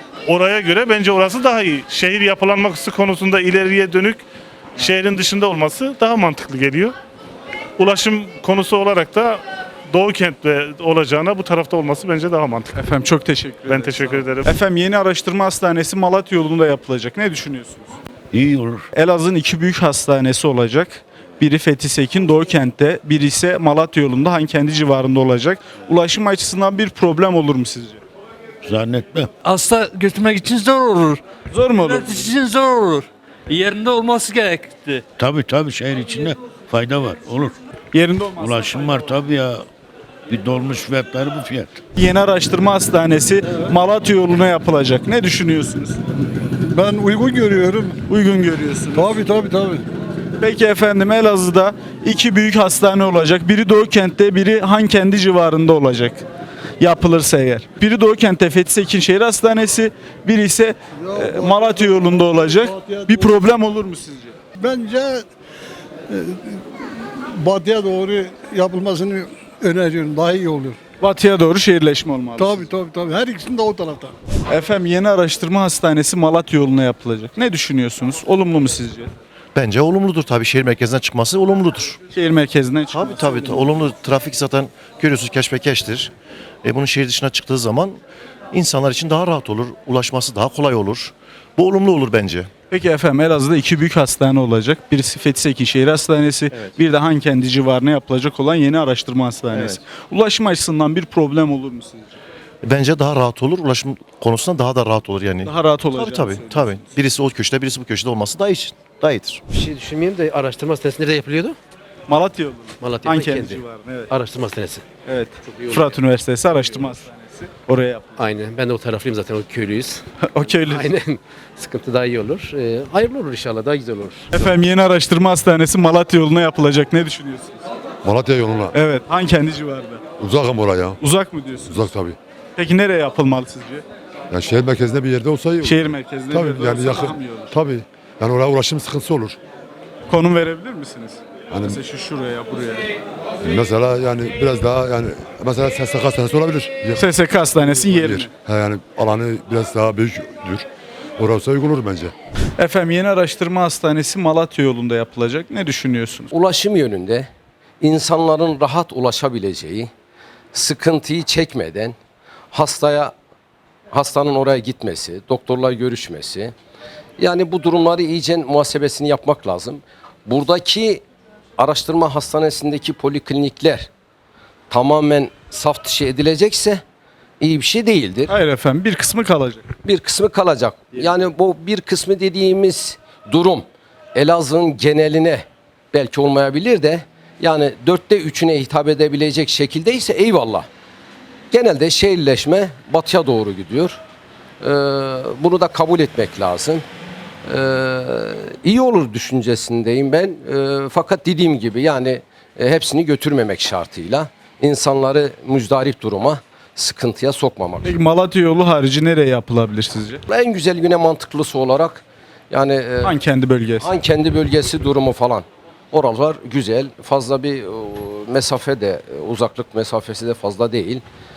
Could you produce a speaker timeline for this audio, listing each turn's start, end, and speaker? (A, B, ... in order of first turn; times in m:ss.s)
0:00.3-0:04.2 A
0:04.8-0:06.9 A
0:07.8-0:09.4 A
0:09.9-0:12.7 A
0:12.7-0:17.9 B
0:13.7-0:14.5 A
0:18.3-0:18.9 C
0:18.9-0:28.0 B
0:28.6-0:29.3 C
0:29.4-0:31.2 D
0:31.5-0:32.3 B
0:31.8-0:35.0 D
0:35.2-0:37.6 C
0:37.9-0:39.3 B
0:38.4-0:39.7 C
0:40.3-0:41.8 C
0:42.0-0:46.0 B
0:46.7-0:48.0 E
0:48.1-0:49.1 B
0:48.9-0:49.8 E
0:50.4-0:56.2 B
0:56.8-1:04.3 B
1:01.0-1:03.4 E
1:04.6-1:05.3 E
1:06.1-1:10.8 E
1:11.0-1:12.7 B
1:12.4-1:14.1 E
1:14.5-1:19.1 B
1:19.6-1:22.0 F
1:22.1-1:23.7 B
1:22.9-1:26.1 F
1:26.6-1:28.0 F
1:28.5-1:32.5 F
1:32.7-1:42.1 B
1:39.5-1:39.8 G
1:42.6-1:49.4 F
1:45.4-1:46.9 B
1:49.5-1:51.6 G
1:52.1-1:54.1 B
1:52.8-1:54.8 G
1:55.1-1:58.1 B
1:55.4-1:56.0 G
1:56.5-1:56.9 G
1:58.2-2:00.0 G
2:00.2-2:00.9 B
2:00.6-2:04.3 G
2:04.3-2:07.6 B
2:08.0-2:08.7 H
2:08.7-2:10.0 B
2:10.2-2:11.0 H
2:11.0-2:11.9 B
2:11.7-2:12.2 H
2:12.6-2:13.8 B
2:14.3-2:19.4 H
2:15.6-2:17.5 B
2:20.1-2:22.9 B
2:21.5-2:21.8 H
2:23.4-2:27.0 H
2:27.0-2:28.3 B
2:27.7-2:30.7 H
2:31.2-2:32.1 H
2:32.6-2:36.3 B
2:36.3-2:37.3 I
2:37.8-2:39.9 I
2:40.5-2:42.0 I
2:42.5-2:43.1 I
2:43.9-2:46.5 I
2:47.2-2:51.0 I
2:51.6-2:53.9 I
2:54.7-2:56.8 I
2:57.4-2:58.3 I
2:58.3-2:59.7 B
2:59.8-3:10.7 I
3:11.5-3:14.0 I
3:14.6-3:16.8 I
3:17.5-3:27.9 I
3:27.8-3:30.2 B
3:30.3-3:33.2 I
3:33.0-3:33.9 B
3:33.8-3:41.0 I